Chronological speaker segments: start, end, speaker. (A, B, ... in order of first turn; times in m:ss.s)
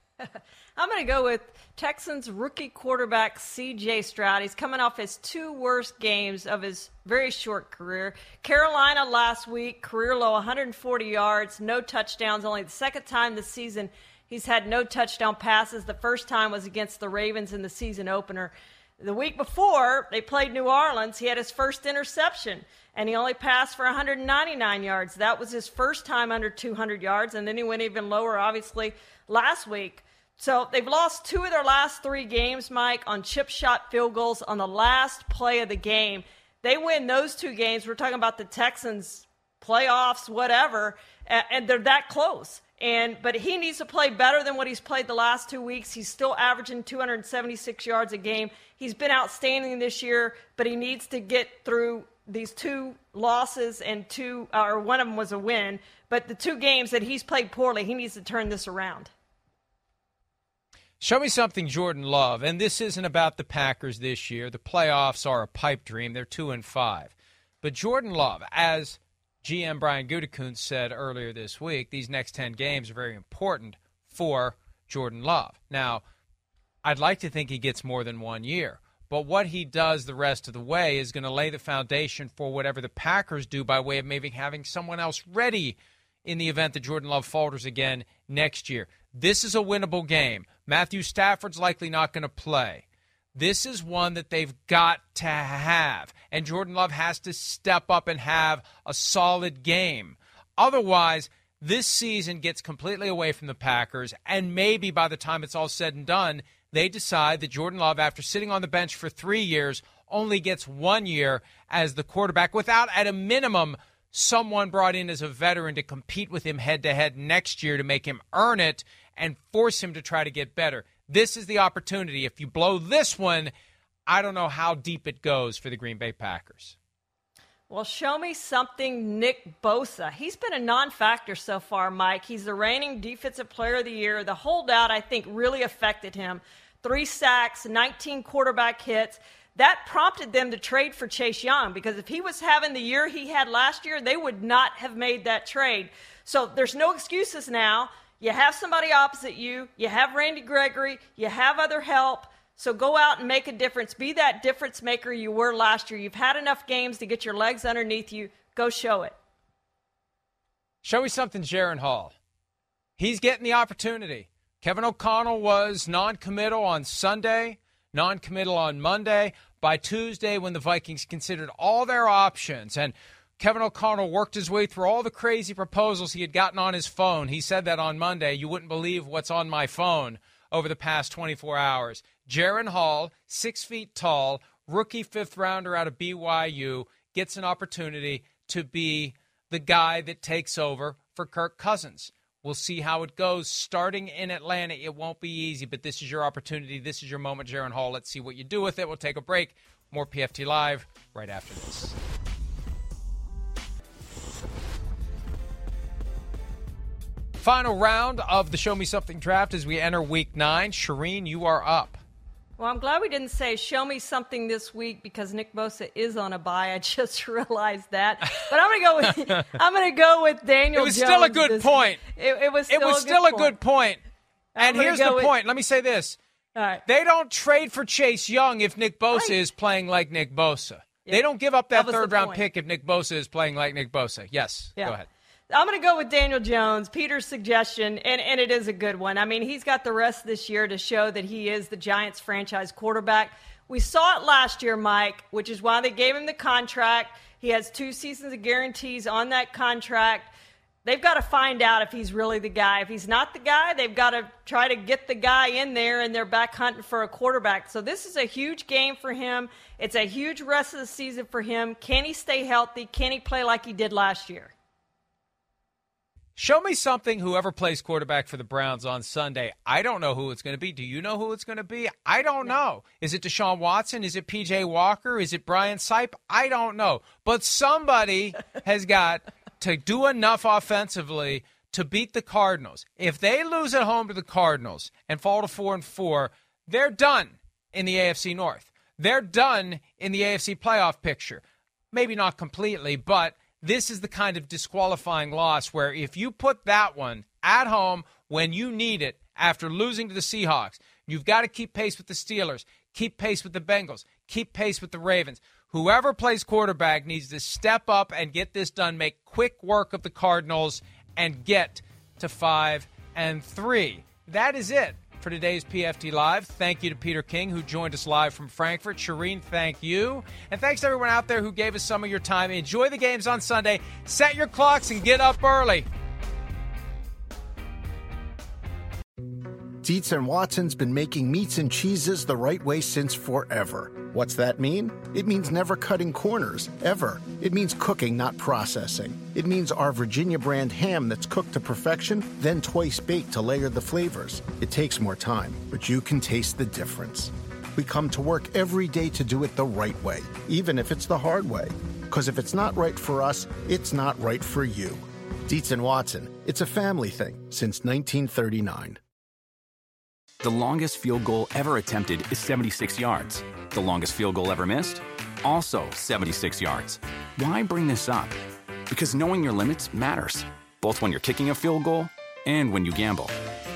0:00.2-0:59.1 A
1:01.0-1:16.0 B
1:16.8-1:32.8 B
1:33.4-2:03.5 B
2:04.1-2:06.8 B
2:07.7-2:39.2 A
2:40.8-2:42.2 B
2:43.0-3:22.0 B
3:27.4-3:32.0 B
3:32.6-3:43.6 A
3:40.8-3:42.0 B
3:42.7-3:44.0 B
3:44.6-3:45.3 A
3:44.6-3:46.2 B
3:46.6-3:46.8 A
3:46.9-3:55.1 B
3:51.1-3:52.4 A
3:55.5-4:10.3 A
4:10.8-4:24.5 A
4:26.4-5:25.9 B
5:29.8-5:59.0 C
6:00.4-6:08.4 D
6:08.9-6:13.3 D